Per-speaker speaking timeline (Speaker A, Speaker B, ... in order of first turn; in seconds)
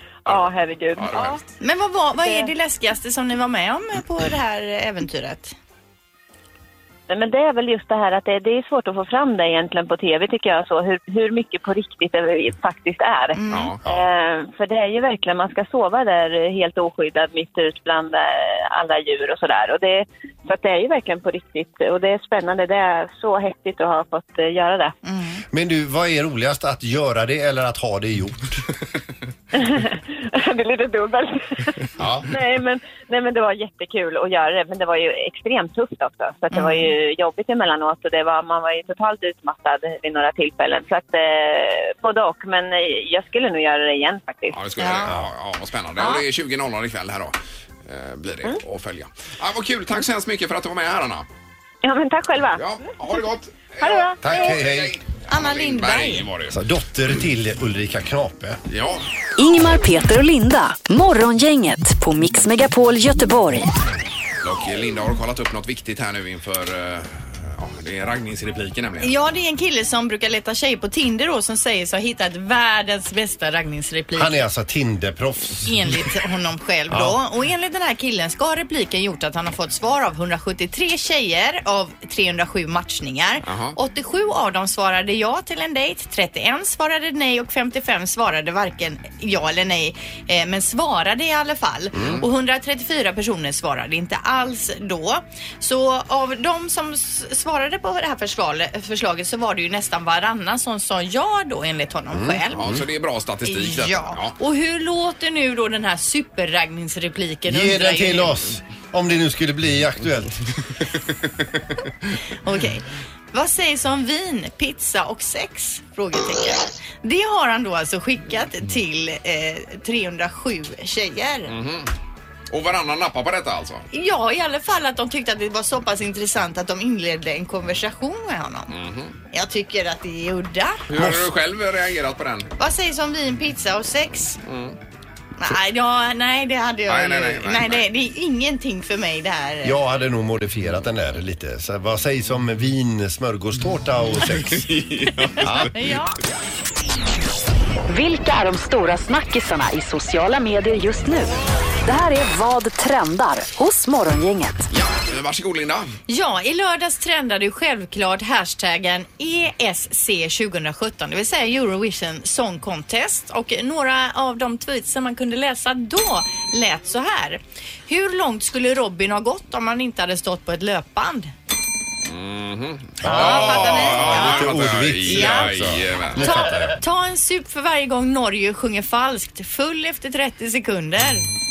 Speaker A: 0.3-1.4, 13.5-13.8, 32.0-32.2, 44.5-47.3, 47.9-51.3, 52.6-56.6, 58.7-59.0, 64.4-69.1, 83.5-83.8, 102.5-104.3, 121.5-121.9, 122.5-123.9, 128.7-129.2, 130.9-132.5, 134.4-134.8, 136.9-137.8, 144.3-145.7, 154.7-155.9, 172.1-176.5
Speaker B: 0.3-1.5, 2.2-2.5, 7.1-24.9, 29.6-44.6, 51.8-52.6, 53.8-54.5
Speaker C: 1.6-5.6, 13.4-13.7, 25.0-25.4, 36.5-36.9, 44.8-45.1, 55.3-56.3, 69.0-74.4, 75.7-102.6, 103.5-108.3, 112.4-121.5, 123.9-128.7, 129.3-130.8, 132.6-134.4, 135.4-139.8, 145.7-146.2, 156.1-171.3, 173.1-174.6, 175.1-175.5, 176.2-181.3
Speaker D: 25.5-28.7, 54.2-55.0, 56.5-58.6, 74.2-76.0, 76.9-77.2, 102.1-102.8, 107.5-110.5, 130.9-131.3, 139.6-144.8, 145.4-145.7, 173.0-176.8
Speaker E: 59.4-63.7, 147.9-154.6